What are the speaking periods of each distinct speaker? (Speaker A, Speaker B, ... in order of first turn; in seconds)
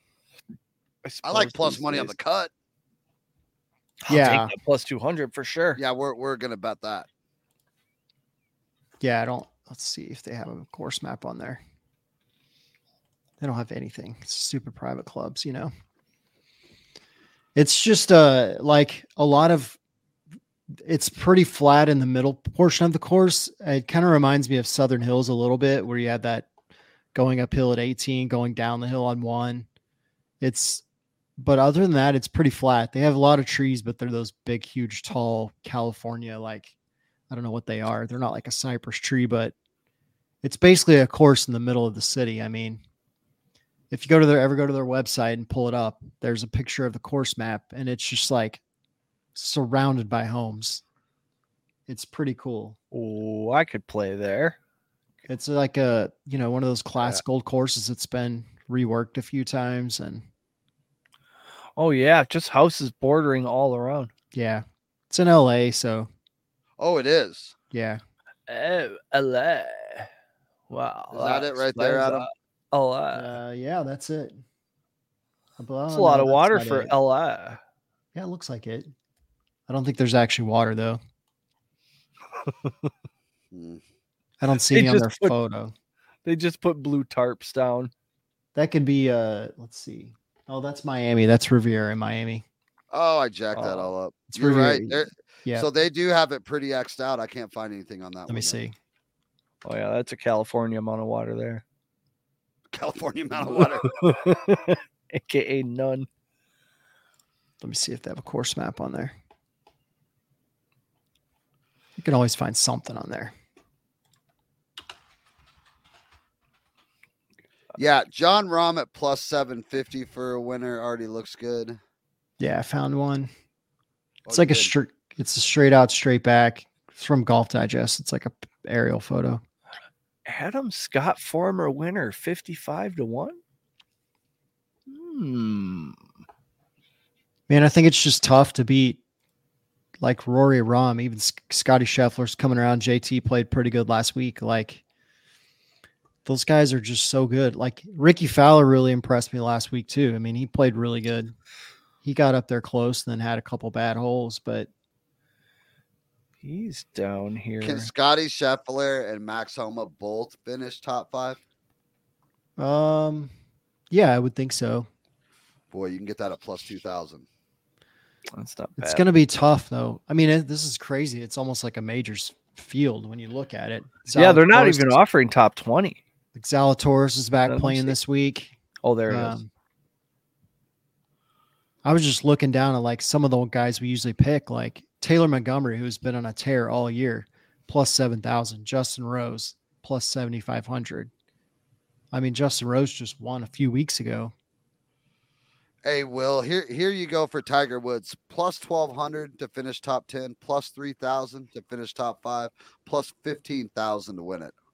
Speaker A: 1.0-2.1, 4.0-5.8, 52.9-54.6, 61.8-64.1, 68.5-70.1, 70.7-73.3, 75.9-77.6, 84.7-85.3, 86.2-87.9, 93.5-93.9, 99.6-101.6, 103.8-106.1, 130.3-133.4, 134.9-136.0, 156.4-157.9, 168.3-169.1, 174.1-176.0, 177.5-177.9, 178.8-179.4
Speaker B: 1.2-2.5, 5.8-7.1, 66.8-67.5, 71.1-72.3, 83.5-83.8, 92.9-98.6, 102.7-104.0, 117.8-121.8, 124.2-124.7, 157.6-161.4, 165.7-167.2, 195.8-204.5
Speaker C: 4.1-4.5, 9.0-11.6, 13.4-15.7, 17.6-19.8, 20.7-26.5, 27.1-29.7, 30.4-30.8, 31.4-36.7, 37.3-39.5, 40.4-42.8, 43.9-48.6, 49.4-50.8, 51.9-52.8, 55.3-60.2, 64.3-66.1, 67.7-68.0, 73.1-74.4, 75.6-77.0, 78.2-78.9, 79.7-81.0, 84.4-85.7, 88.5-92.5, 94.3-95.7, 98.3-98.8, 107.6-109.2, 112.0-113.3, 122.4-123.3, 124.3-129.4, 137.5-139.0, 140.0-144.8, 146.2-151.3, 152.0-154.7, 162.6-163.3, 163.9-164.9, 168.8-175.0, 176.3-178.6, 179.1-179.5, 181.8-191.1, 192.1-194.3